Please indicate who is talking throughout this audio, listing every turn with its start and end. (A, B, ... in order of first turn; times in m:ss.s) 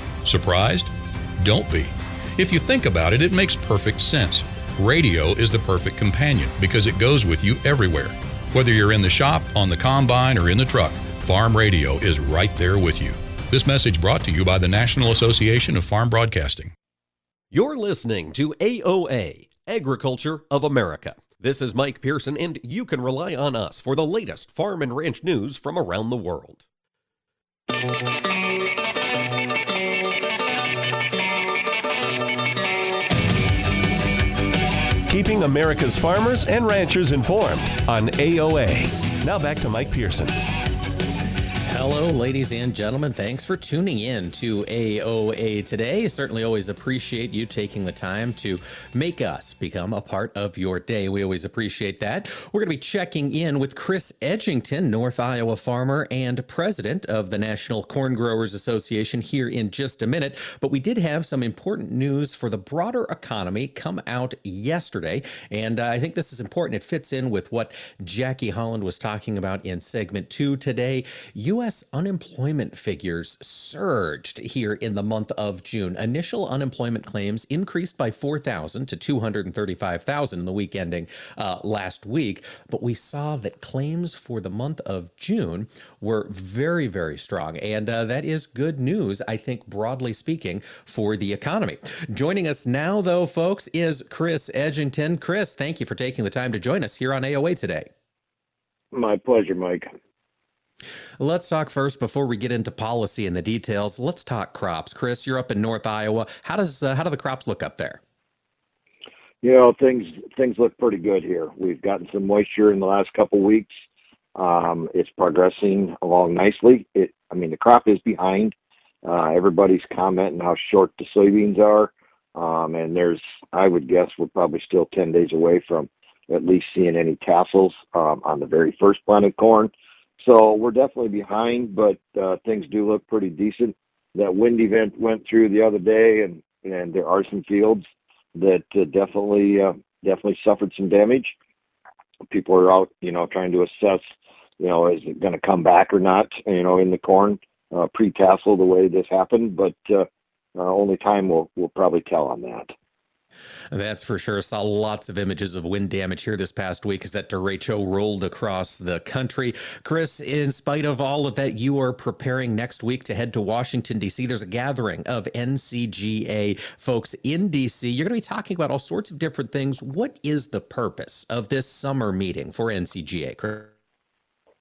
0:00.2-0:16.7 A
0:17.5-0:26.6 B
0:35.1-0:40.3 C
0:41.6-1:37.9 D
1:38.9-1:39.9 E
1:41.2-1:48.0 D
1:49.4-1:53.7 E
1:54.3-2:21.3 E
2:22.3-2:24.1 E
2:24.6-2:32.7 E
2:33.7-2:53.7 D